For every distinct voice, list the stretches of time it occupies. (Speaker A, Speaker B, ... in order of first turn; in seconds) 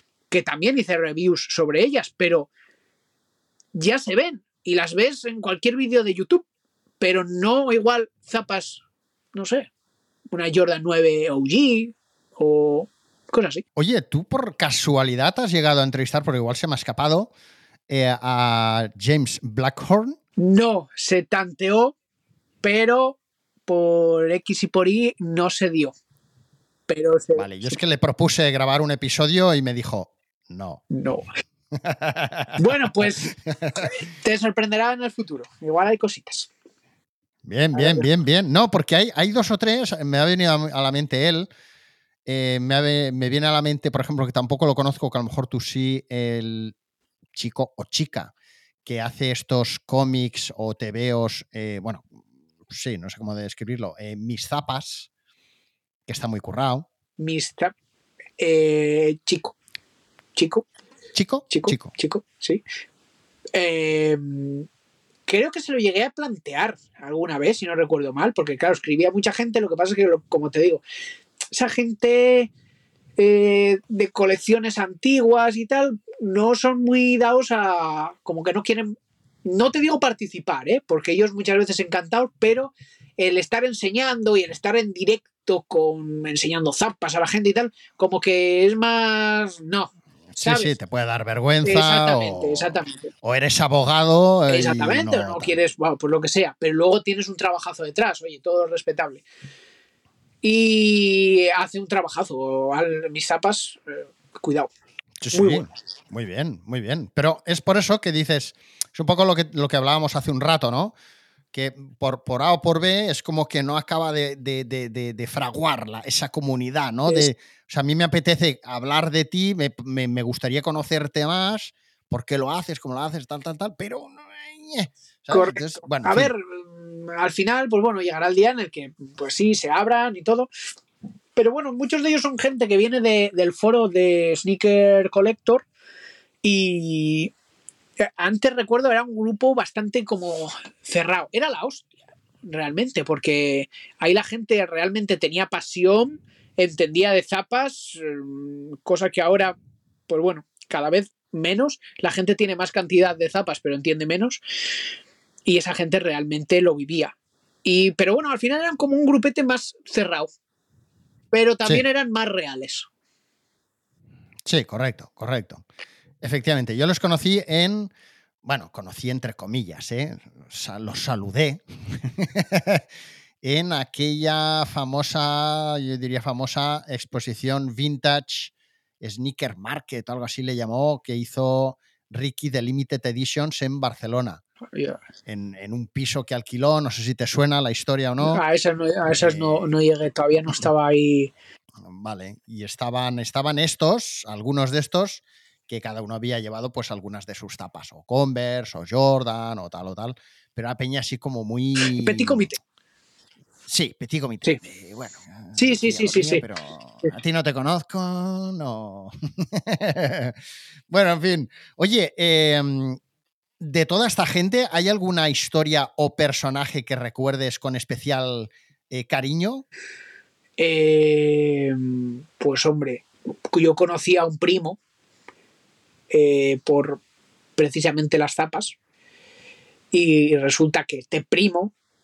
Speaker A: 0.3-2.5, 3.7-6.5, 7.0-8.8, 9.3-9.7, 10.3-13.6, 20.4-21.9, 22.6-25.9, 26.9-27.8, 30.9-31.3, 32.6-36.5, 37.7-38.1, 57.2-57.7, 58.4-59.5, 60.4-60.7, 61.5-62.6, 63.5-64.7, 65.3-70.8, 71.5-72.5, 73.2-90.8, 91.6-93.1, 94.5-99.2, 100.4-104.7, 105.3-105.8, 125.3-130.5, 131.4-135.7, 136.4-137.3, 138.0-141.9, 142.4-149.6, 150.1-154.4, 155.5-160.3, 161.3-162.9, 184.7-185.0, 188.2-191.3, 201.8-202.6, 205.6-206.4, 220.6-224.8, 226.1-227.0, 227.6-228.8, 229.9-231.7
Speaker B: 13.8-17.3, 17.9-20.2, 27.4-30.8, 31.7-33.8, 37.5-41.5, 42.3-46.7, 47.3-48.3, 48.9-52.1, 52.7-55.1, 56.1-56.9, 61.1-61.9, 90.3-95.6, 105.2-110.9, 111.5-126.3, 164.5-165.6, 166.2-167.9, 168.4-172.8, 173.4-184.4, 185.3-188.4, 189.1-189.7, 191.8-202.5, 203.7-210.4, 210.9-213.0, 213.6-219.7